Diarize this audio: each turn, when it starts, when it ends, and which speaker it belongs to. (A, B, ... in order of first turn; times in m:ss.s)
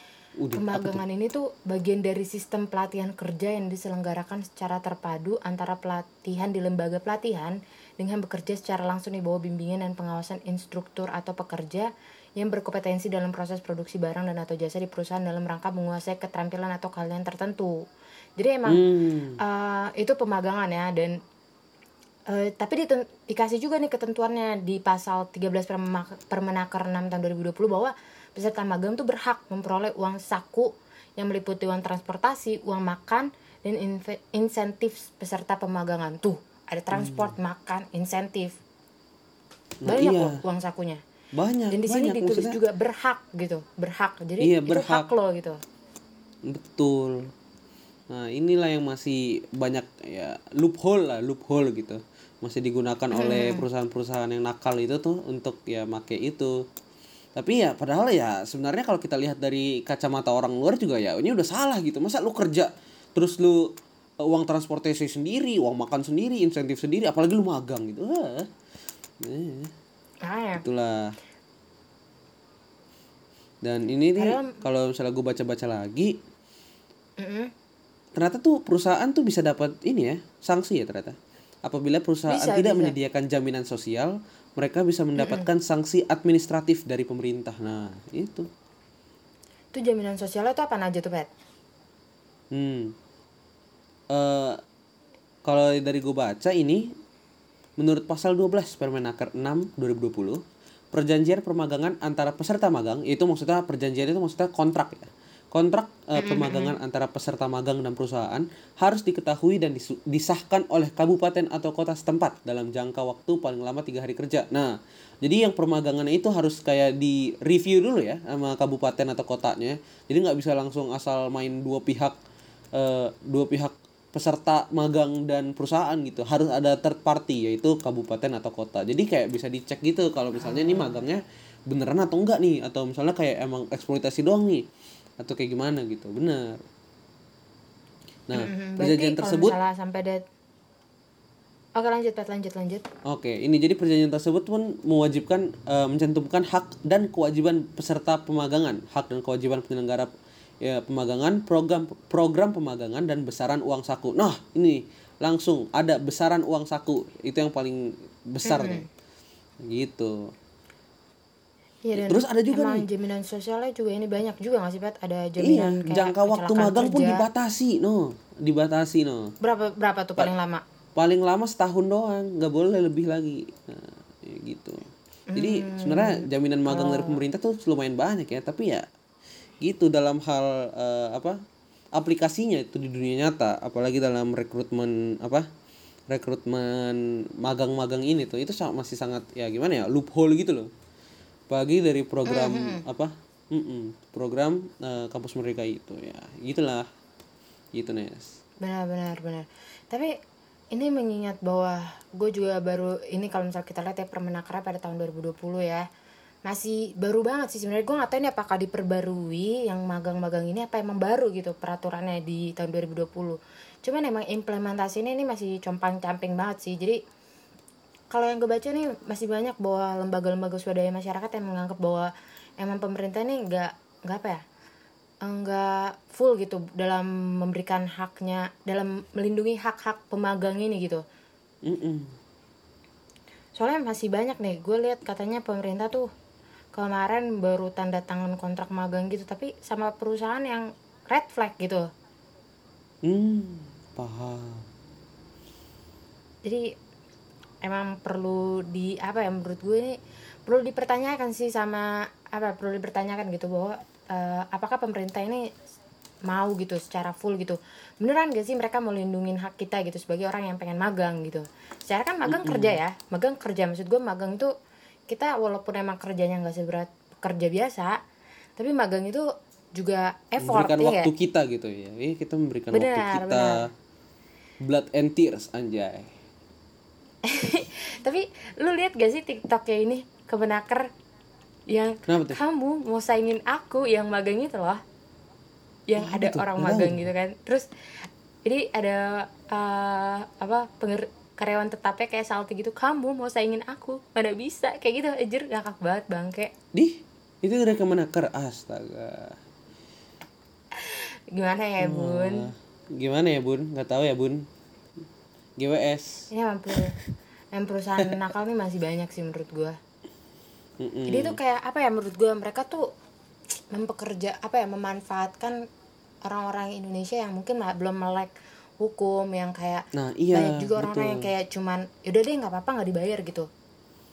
0:00.4-0:01.0 A
0:00.5-0:17.8 B
0:18.4-0:18.8 B
0:18.7-0:19.4 A
0:19.4-0:21.2 B
0:22.3-0:38.6 B
0:36.9-0:37.3 A
0:39.8-0:40.4 A
0:39.9-0:41.0 B
0:41.3-0:42.6 A
0:41.7-0:45.6 B
0:44.4-0:45.1 A
0:46.4-0:47.3 A
0:48.1-0:56.6 A
0:53.1-0:53.6 B
0:57.4-1:03.7 A
1:04.2-1:08.5 A
1:09.2-1:09.7 A
1:10.2-1:10.6 B
1:10.6-1:11.1 A
1:13.6-1:16.2 A
1:14.2-1:14.5 B
1:17.2-1:17.5 B
1:18.1-1:28.5 A
1:22.3-1:22.9 B
1:25.2-1:25.5 B
1:29.7-1:31.3 B
1:32.5-1:32.9 A
1:34.1-1:34.6 A
1:35.4-1:36.9 A
1:37.8-1:40.4 A
1:40.9-2:02.2 A
1:46.2-1:46.7 B
2:02.7-2:14.6 A
2:10.4-2:11.0 B
2:15.2-2:16.6 A
2:18.3-2:19.6 A
2:18.3-2:20.2 B
2:21.8-2:22.8 B
2:23.0-2:30.1 A
2:30.6-2:38.8 A
2:38.4-2:38.8 B
2:39.6-2:40.3 A
2:41.8-2:47.2 B
2:42.0-2:42.8 A
2:45.4-2:49.3 A
2:49.4-2:50.6 B
2:51.0-2:58.8 A
2:55.3-2:57.2 B
2:59.6-3:01.4 A
3:01.9-3:05.5 A
3:06.1-3:10.7 A
3:11.5-3:16.9 A
3:12.2-3:12.8 B
3:17.7-3:18.4 A
3:18.6-3:20.1 B
3:20.7-3:25.8 B
3:26.5-3:37.0 B
3:38.1-3:44.4 B
3:45.2-3:51.0 B
3:51.6-3:52.1 A
3:53.6-3:56.1 B
3:56.7-4:01.8 B
4:03.0-4:04.6 A
4:07.6-4:15.5 B
4:16.3-4:24.5 B
4:22.2-4:22.8 A
4:25.1-4:28.0 B
4:28.6-4:31.1 B
4:30.4-4:33.7 A
4:32.7-4:33.6 B
4:34.6-4:36.1 A
4:37.2-4:40.9 B
4:41.7-4:44.8 B
4:42.0-4:42.4 A
4:45.9-4:47.7 B
4:46.0-4:47.1 A
4:48.4-4:56.5 B
4:56.7-4:59.4 A
5:00.8-5:02.5 B
5:01.8-5:04.5 A
5:05.6-5:06.3 A
5:06.3-5:07.0 B
5:07.5-5:09.8 B
5:10.8-5:11.4 A
5:11.1-5:12.8 B
5:13.7-5:15.6 B
5:16.2-5:23.5 B
5:19.9-5:21.3 A